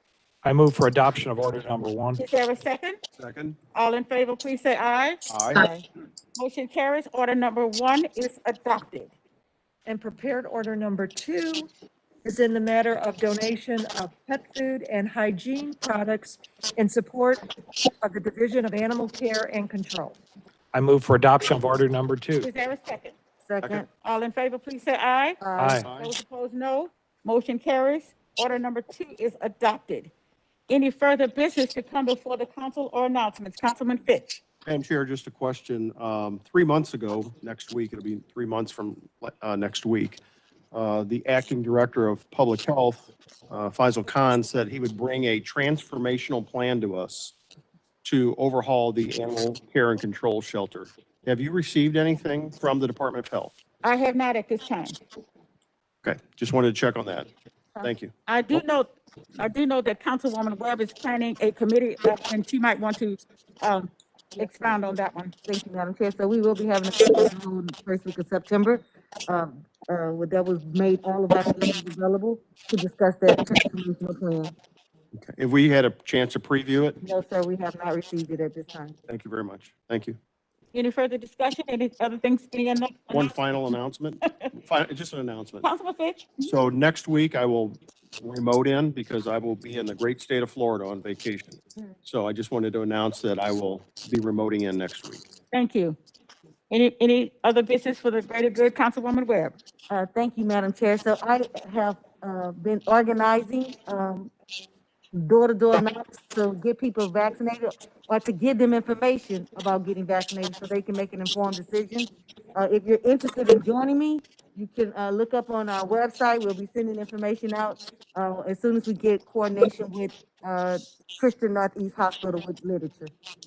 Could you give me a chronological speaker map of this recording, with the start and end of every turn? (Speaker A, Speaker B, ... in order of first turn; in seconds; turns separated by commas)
Speaker A: 0.4-2.2, Speaker B: 2.1-3.0, Speaker C: 3.2-3.6, Speaker B: 3.7-5.7, Speaker C: 5.3-5.6, Speaker D: 5.5-5.8, Speaker B: 6.3-9.1, Speaker E: 9.8-11.7, Speaker E: 12.2-17.4, Speaker E: 18.0-20.2, Speaker A: 20.7-22.5, Speaker B: 22.4-23.2, Speaker D: 23.4-23.9, Speaker B: 24.0-25.4, Speaker D: 25.4-25.8, Speaker A: 25.6-25.9, Speaker C: 25.7-26.1, Speaker B: 25.9-30.1, Speaker B: 30.7-34.4, Speaker C: 34.6-40.2, Speaker C: 40.7-47.3, Speaker C: 48.0-53.5, Speaker B: 53.8-55.0, Speaker C: 56.0-57.3, Speaker C: 57.8-58.1, Speaker B: 58.3-65.3, Speaker D: 64.4-64.8, Speaker D: 65.5-74.5, Speaker C: 75.1-77.0, Speaker D: 77.0-79.0, Speaker C: 79.1-80.2, Speaker B: 80.7-83.7, Speaker C: 83.1-85.7, Speaker B: 85.6-86.5, Speaker C: 86.4-95.2, Speaker B: 95.5-96.0, Speaker B: 96.7-99.5, Speaker D: 99.9-104.3, Speaker D: 105.1-123.1